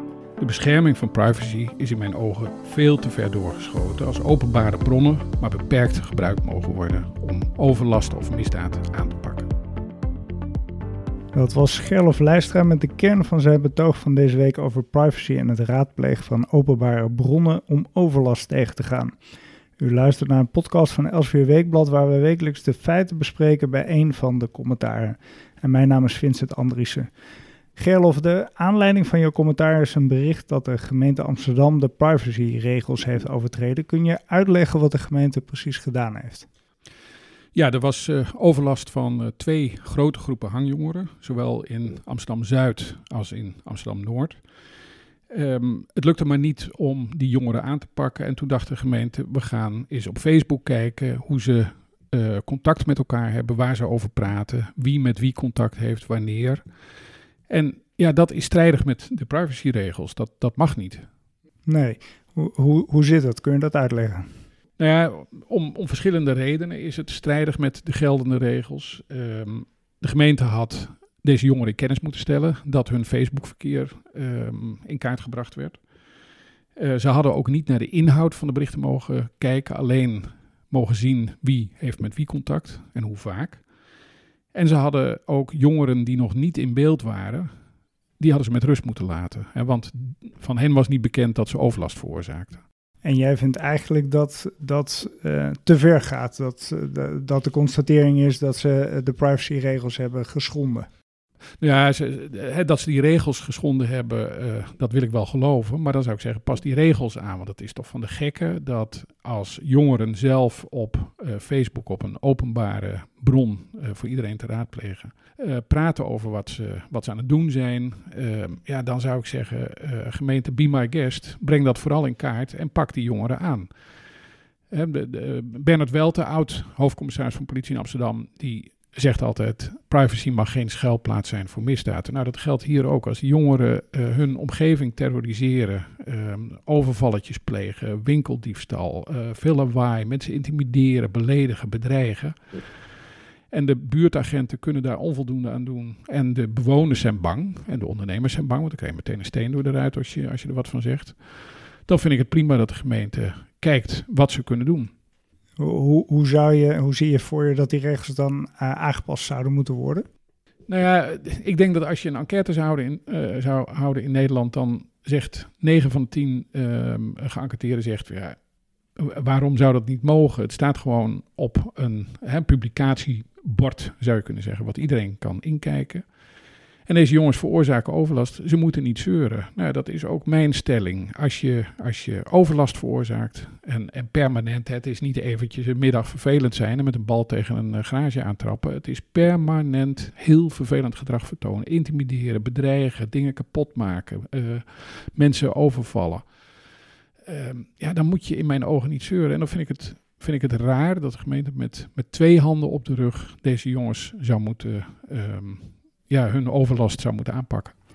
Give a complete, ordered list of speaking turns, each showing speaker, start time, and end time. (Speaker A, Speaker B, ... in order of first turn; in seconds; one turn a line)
Speaker A: 0.4-9.5
Speaker B: 11.3-19.1
Speaker B: 19.8-27.1
Speaker B: 27.8-36.5
Speaker A: 37.5-44.4
Speaker A: 45.3-56.6
Speaker A: 57.5-61.0
Speaker B: 61.6-64.3
Speaker A: 64.8-75.8
Speaker A: 76.8-83.7
Speaker A: 84.5-87.5
Speaker A: 88.2-92.6
Speaker B: 93.0-100.9
Speaker A: 101.6-123.7
Speaker A: 124.7-142.8
Speaker A: 143.5-154.9
Speaker B: 155.6-160.1
Speaker A: 160.7-168.4
Speaker A: 169.0-176.1
Speaker A: 176.8-196.3
Speaker A: 197.2-207.8